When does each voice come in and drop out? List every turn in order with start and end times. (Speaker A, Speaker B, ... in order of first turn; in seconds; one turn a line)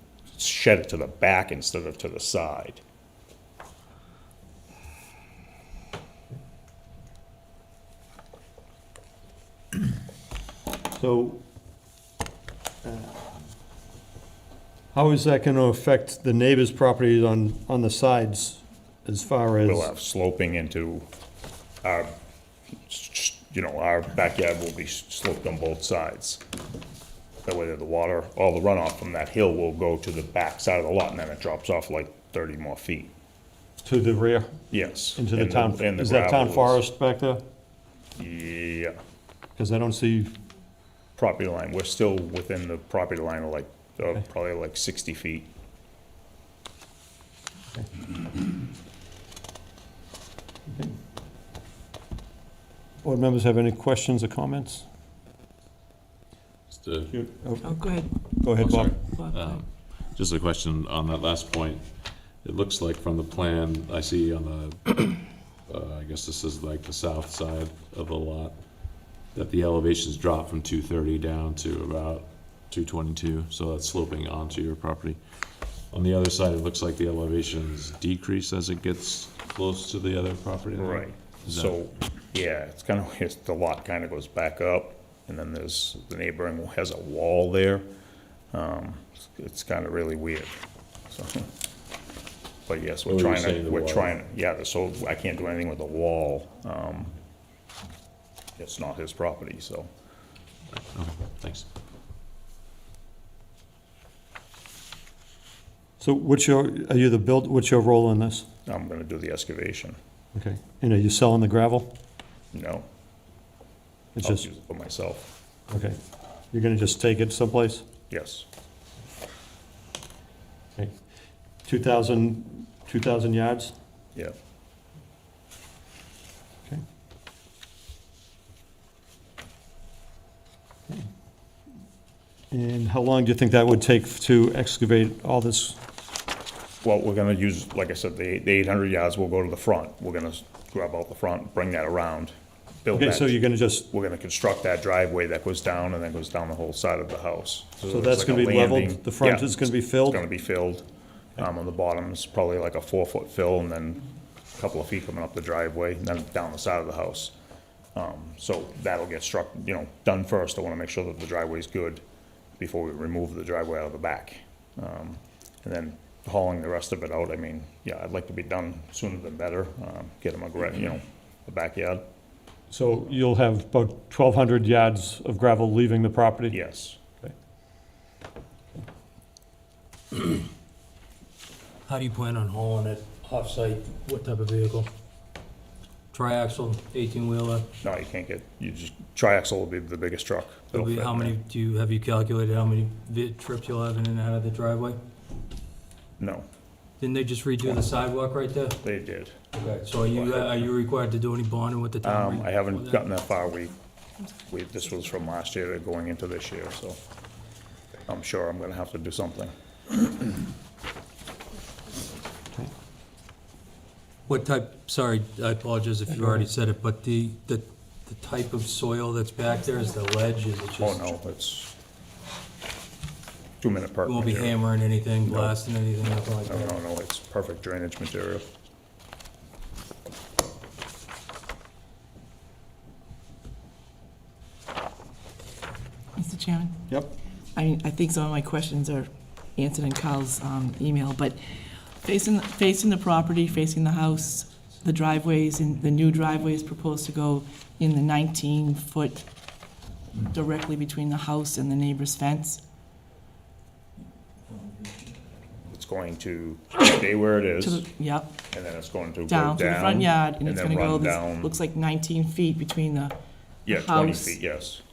Speaker A: 0.3-2.8
Speaker B: 10.9-11.4
Speaker B: 12.8-13.2
Speaker B: 14.9-19.9
Speaker A: 19.6-21.1
Speaker A: 21.8-22.1
Speaker A: 22.9-26.4
Speaker A: 27.4-33.1
Speaker B: 33.8-34.5
Speaker A: 34.7-36.8
Speaker B: 35.1-37.4
Speaker A: 38.2-39.0
Speaker B: 39.6-40.3
Speaker A: 41.1-45.5
Speaker B: 50.7-50.9
Speaker B: 53.0-54.8
Speaker C: 56.7-57.1
Speaker B: 57.1-59.0
Speaker D: 57.6-58.3
Speaker C: 58.5-68.6
Speaker D: 59.0-59.6
Speaker C: 69.3-75.2
Speaker C: 75.9-81.7
Speaker A: 80.8-87.8
Speaker A: 88.5-90.6
Speaker A: 91.1-91.5
Speaker A: 92.7-97.1
Speaker C: 93.1-94.1
Speaker A: 98.6-99.9
Speaker C: 100.7-101.7
Speaker B: 106.0-108.5
Speaker A: 108.7-110.0
Speaker B: 110.3-111.9
Speaker A: 112.5-112.8
Speaker B: 114.2-114.5
Speaker A: 114.2-115.3
Speaker B: 115.7-116.0
Speaker B: 116.5-117.9
Speaker A: 118.1-118.5
Speaker B: 121.7-123.7
Speaker B: 132.5-135.8
Speaker A: 136.8-143.4
Speaker B: 142.9-143.9
Speaker A: 143.9-150.8
Speaker B: 147.9-150.2
Speaker A: 151.4-154.0
Speaker A: 154.6-157.3
Speaker A: 157.9-162.0
Speaker A: 162.6-172.1
Speaker B: 172.7-176.6
Speaker A: 176.5-177.0
Speaker E: 181.8-184.9
Speaker E: 186.1-187.7
Speaker A: 187.8-191.3
Speaker E: 190.7-195.0
Speaker A: 196.2-196.4
Speaker E: 197.0-198.8
Speaker A: 198.8-199.3
Speaker E: 199.5-203.0
Speaker A: 200.1-200.5
Speaker A: 202.0-203.7
Speaker A: 204.5-207.0
Speaker A: 208.1-210.1
Speaker E: 214.3-221.2
Speaker A: 220.8-221.7
Speaker A: 223.6-224.6
Speaker E: 224.0-226.8
Speaker A: 225.3-225.6
Speaker A: 226.5-228.5
Speaker D: 236.2-236.8
Speaker D: 237.5-241.4
Speaker D: 242.0-249.2
Speaker D: 250.3-252.6
Speaker A: 255.7-257.9
Speaker D: 257.6-258.4
Speaker A: 258.5-261.6
Speaker D: 259.3-263.2
Speaker A: 263.6-264.8
Speaker D: 263.7-264.4